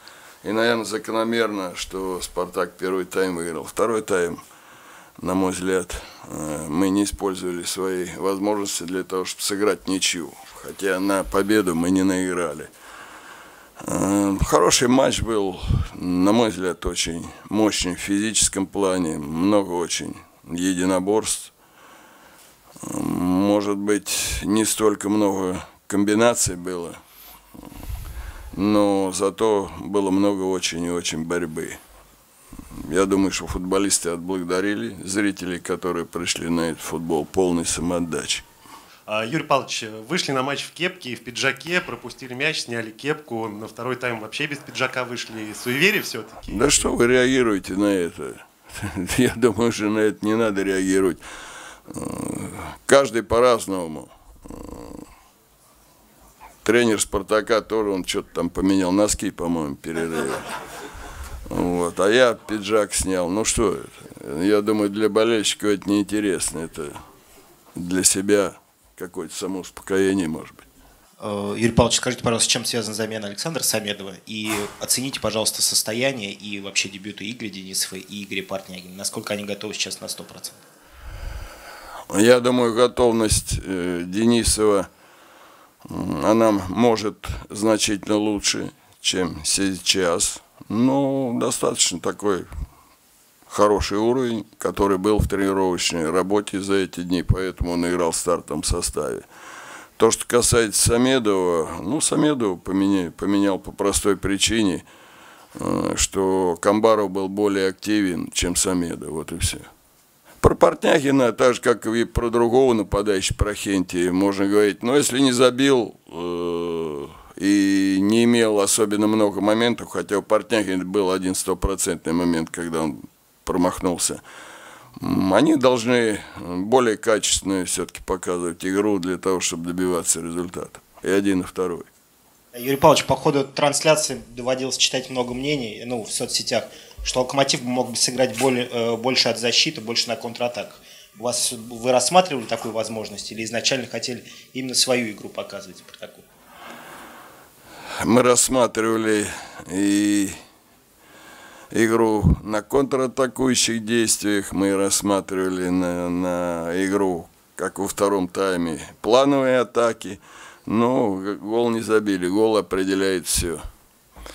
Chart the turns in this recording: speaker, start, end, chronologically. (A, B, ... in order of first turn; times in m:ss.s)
0:00.4-0:04.4 A
0:05.2-0:12.7 A
0:13.8-0:21.5 A
0:22.8-0:27.0 A
0:28.5-0:31.8 A
0:32.7-0:38.4 A
0:39.1-0:46.9 B
0:46.5-0:51.2 A
0:51.9-0:55.0 A
0:56.6-1:00.5 A
1:01.5-1:07.0 A
1:07.7-1:10.6 A
1:11.2-1:20.6 C
1:22.1-1:24.9 A
1:25.8-1:32.5 A
1:33.5-1:39.2 A
1:40.0-1:44.8 A
1:45.5-1:49.7 A
1:50.4-2:04.2 A
2:05.0-2:11.9 A
2:12.5-2:26.2 C
2:28.0-2:30.4 A
2:31.7-2:43.6 A